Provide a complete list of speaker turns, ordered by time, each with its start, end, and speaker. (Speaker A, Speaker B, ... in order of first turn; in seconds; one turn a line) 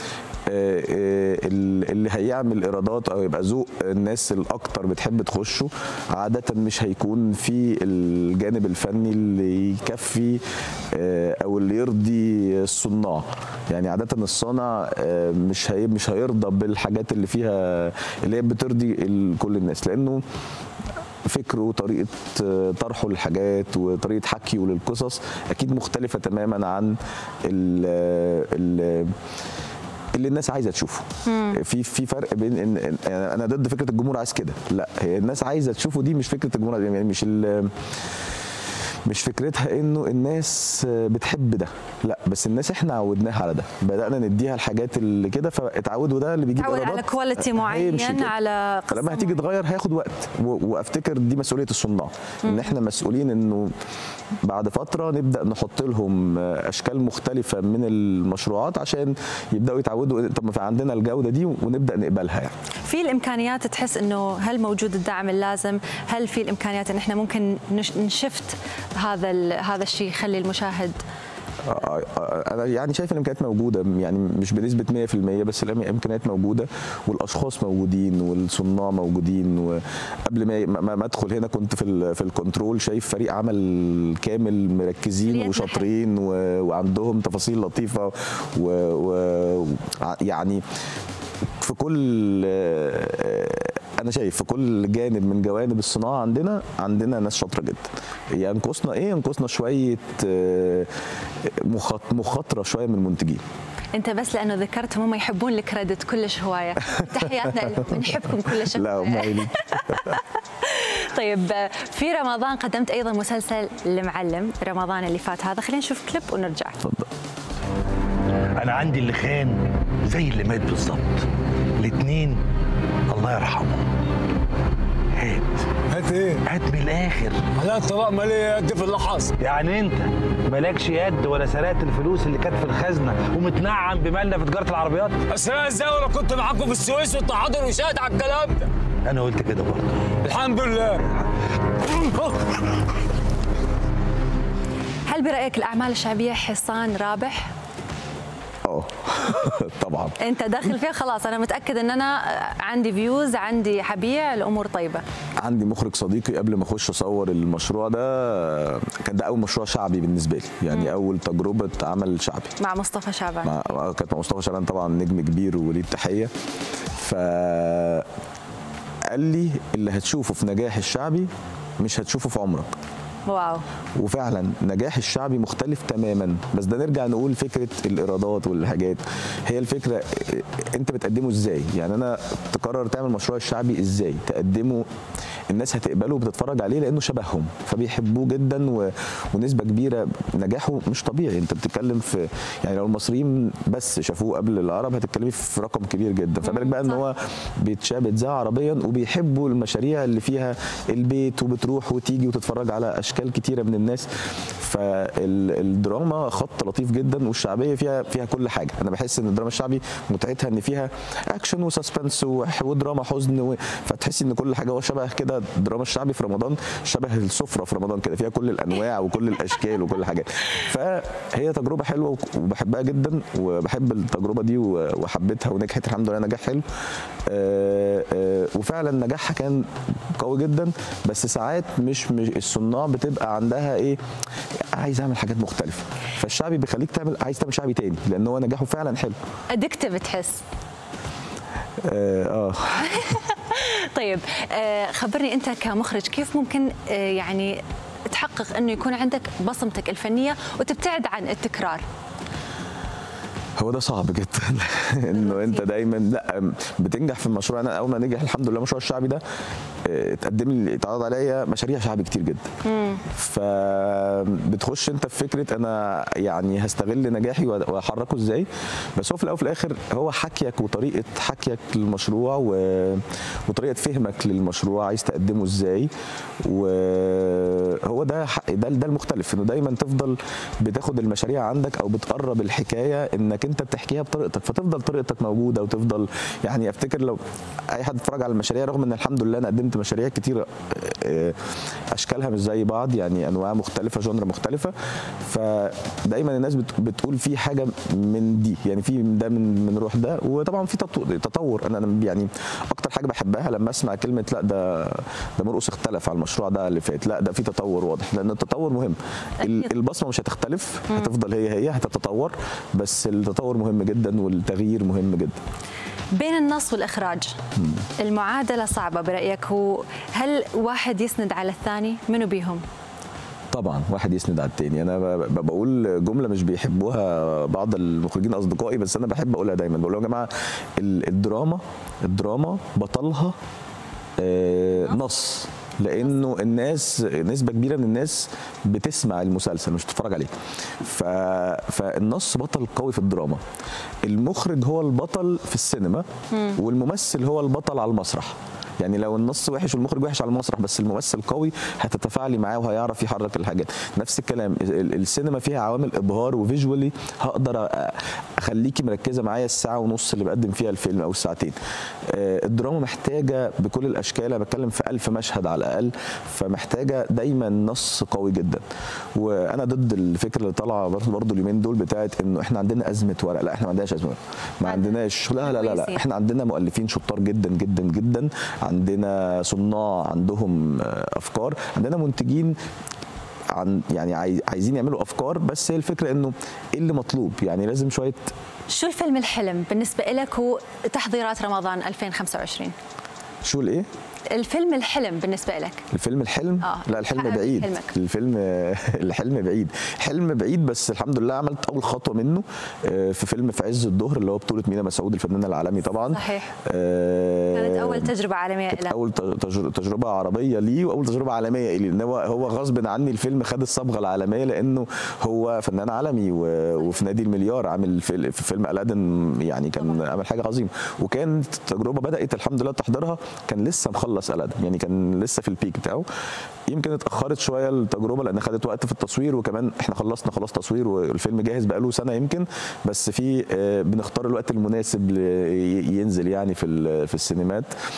Speaker A: 0.5-20.2
Speaker A: 21.2-29.1
Speaker A: 30.1-37.7
Speaker B: 31.2-31.6
Speaker A: 39.0-48.3
Speaker B: 46.6-49.4
Speaker A: 48.9-53.7
Speaker B: 52.4-52.7
Speaker A: 54.4-62.5
Speaker B: 62.9-71.0
Speaker A: 71.6-90.6
Speaker B: 85.2-85.9
Speaker A: 91.6-100.9
Speaker A: 101.4-103.4
Speaker B: 103.9-116.8
Speaker A: 107.3-110.2
Speaker C: 118.5-122.4
Speaker C: 123.1-123.9
Speaker C: 125.1-125.8
Speaker D: 125.9-126.4
Speaker C: 126.4-127.5
Speaker D: 127.5-129.3
Speaker C: 129.4-135.3
Speaker D: 135.3-138.7
Speaker C: 139.0-140.2
Speaker D: 140.2-141.0
Speaker C: 141.9-142.5
Speaker B: 145.1-147.5
Speaker A: 148.6-150.2
Speaker B: 150.2-155.0
Speaker A: 155.4-162.5
Speaker B: 162.6-163.6
Speaker A: 163.4-166.3
Speaker A: 167.0-168.1
Speaker A: 169.1-171.3
Speaker A: 171.8-172.7
Speaker B: 173.3-173.6
Speaker A: 173.9-184.8
Speaker A: 185.5-204.1
Speaker B: 196.4-197.0
Speaker A: 204.6-226.6
Speaker A: 227.2-234.0
Speaker A: 234.7-239.2
Speaker B: 239.5-240.4
Speaker A: 241.8-243.1
Speaker B: 242.8-251.8
Speaker A: 253.6-259.2
Speaker B: 255.1-255.7
Speaker A: 259.8-262.5
Speaker B: 262.6-263.0
Speaker A: 263.0-275.9
Speaker A: 276.4-287.2
Speaker A: 287.7-291.4
Speaker A: 291.9-294.7
Speaker A: 295.2-315.4
Speaker B: 316.1-317.4
Speaker B: 318.0-322.6
Speaker A: 323.5-333.3
Speaker A: 334.2-343.4
Speaker A: 344.0-361.6
Speaker B: 346.3-346.6
Speaker A: 362.1-368.6
Speaker A: 369.1-382.5
Speaker B: 374.6-376.0
Speaker A: 383.5-388.3
Speaker B: 388.7-392.7
Speaker A: 393.4-393.9
Speaker B: 394.3-395.8
Speaker A: 395.9-408.1
Speaker B: 396.6-397.9
Speaker B: 406.0-406.5
Speaker B: 407.5-408.9
Speaker A: 408.7-426.0
Speaker A: 426.7-437.7